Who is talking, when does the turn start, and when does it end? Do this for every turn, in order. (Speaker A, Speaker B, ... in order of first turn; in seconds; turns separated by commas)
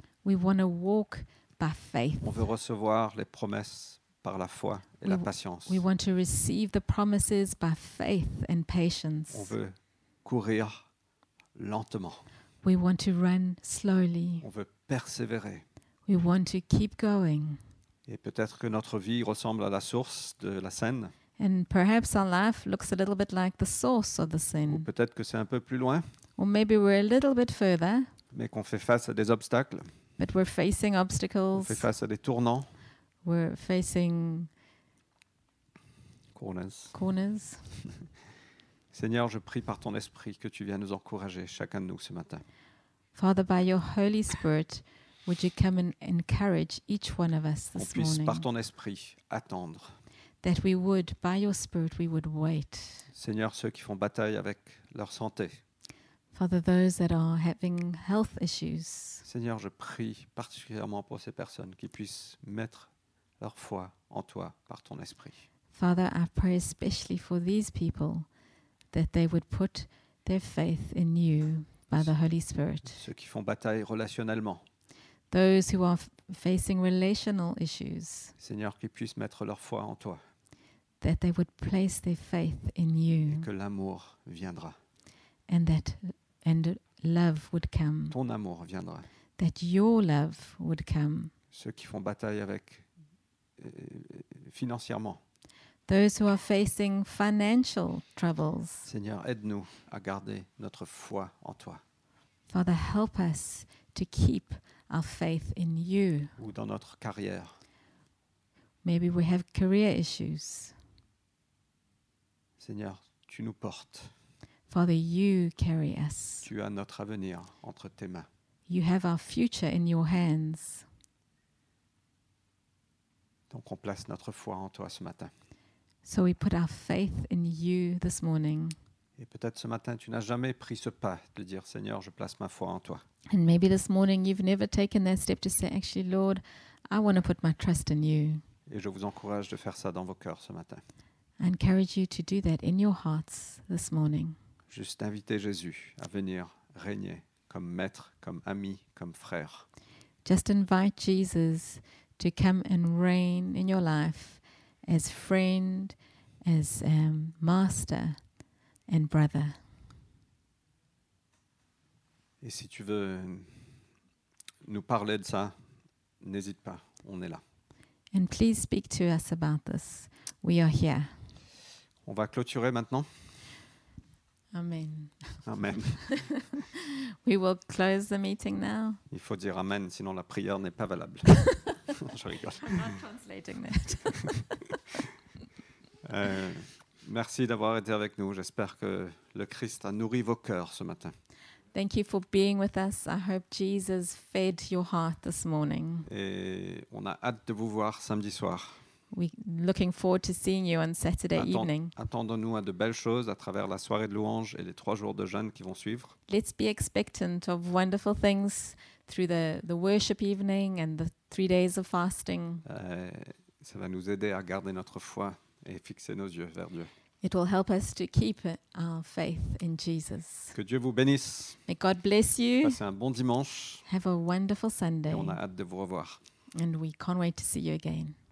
Speaker A: 0.2-2.4, Speaker B: 2.2-5.8, Speaker A: 5.0-9.5, Speaker B: 9.3-10.8, Speaker B: 11.5-12.2, Speaker A: 12.6-14.4, Speaker B: 14.4-15.6, Speaker A: 16.1-17.6, Speaker B: 18.1-21.1, Speaker A: 21.4-24.9, Speaker B: 24.7-26.0, Speaker A: 26.4-28.1, Speaker B: 28.3-29.9, Speaker A: 30.2-31.9, Speaker B: 31.5-32.7, Speaker A: 33.2-34.5, Speaker B: 36.3-36.9, Speaker A: 36.9-37.6, Speaker B: 38.9-42.4, Speaker A: 43.1-48.4, Speaker B: 47.8-49.9, Speaker A: 50.4-53.1, Speaker B: 53.1-55.6, Speaker A: 56.3-59.2, Speaker B: 59.2-65.4, Speaker A: 65.7-68.3, Speaker A: 68.9-73.0, Speaker B: 72.9-74.6, Speaker A: 75.3-78.3, Speaker B: 78.4-80.2, Speaker A: 81.0-83.5, Speaker B: 83.3-84.8, Speaker A: 85.5-88.1, Speaker B: 88.1-89.1, Speaker A: 89.4-91.3, Speaker B: 91.5-92.8, Speaker B: 93.6-95.2, Speaker A: 95.9-98.9, Speaker B: 98.8-101.8, Speaker A: 102.5-106.3, Speaker B: 106.4-107.5, Speaker A: 108.8-110.7, Speaker B: 112.6-114.1, Speaker A: 114.7-116.5, Speaker B: 116.4-118.3, Speaker A: 118.7-120.8, Speaker B: 123.5-125.3, Speaker A: 126.0-128.8, Speaker B: 129.2-133.0, Speaker A: 133.3-138.4, Speaker B: 138.7-140.8, Speaker A: 141.4-144.3, Speaker B: 144.7-149.7, Speaker A: 150.2-158.2, Speaker A: 158.9-159.6, Speaker B: 162.4-163.6, Speaker B: 164.6-165.5, Speaker B: 166.2-167.4, Speaker A: 168.1-171.1, Speaker B: 172.1-173.1, Speaker A: 174.5-175.2, Speaker B: 175.4-176.2, Speaker A: 176.0-179.0, Speaker B: 179.1-181.4, Speaker B: 181.9-183.0, Speaker A: 182.6-184.7, Speaker B: 186.0-191.1, Speaker A: 191.7-196.1, Speaker B: 196.1-198.8, Speaker A: 199.1-201.9, Speaker B: 201.3-206.1, Speaker A: 206.3-212.6, Speaker B: 212.6-216.9, Speaker A: 217.2-220.5, Speaker B: 220.5-221.6, Speaker A: 221.7-222.8, Speaker B: 222.6-223.8, Speaker A: 223.8-225.4, Speaker B: 225.1-226.2, Speaker A: 226.5-228.2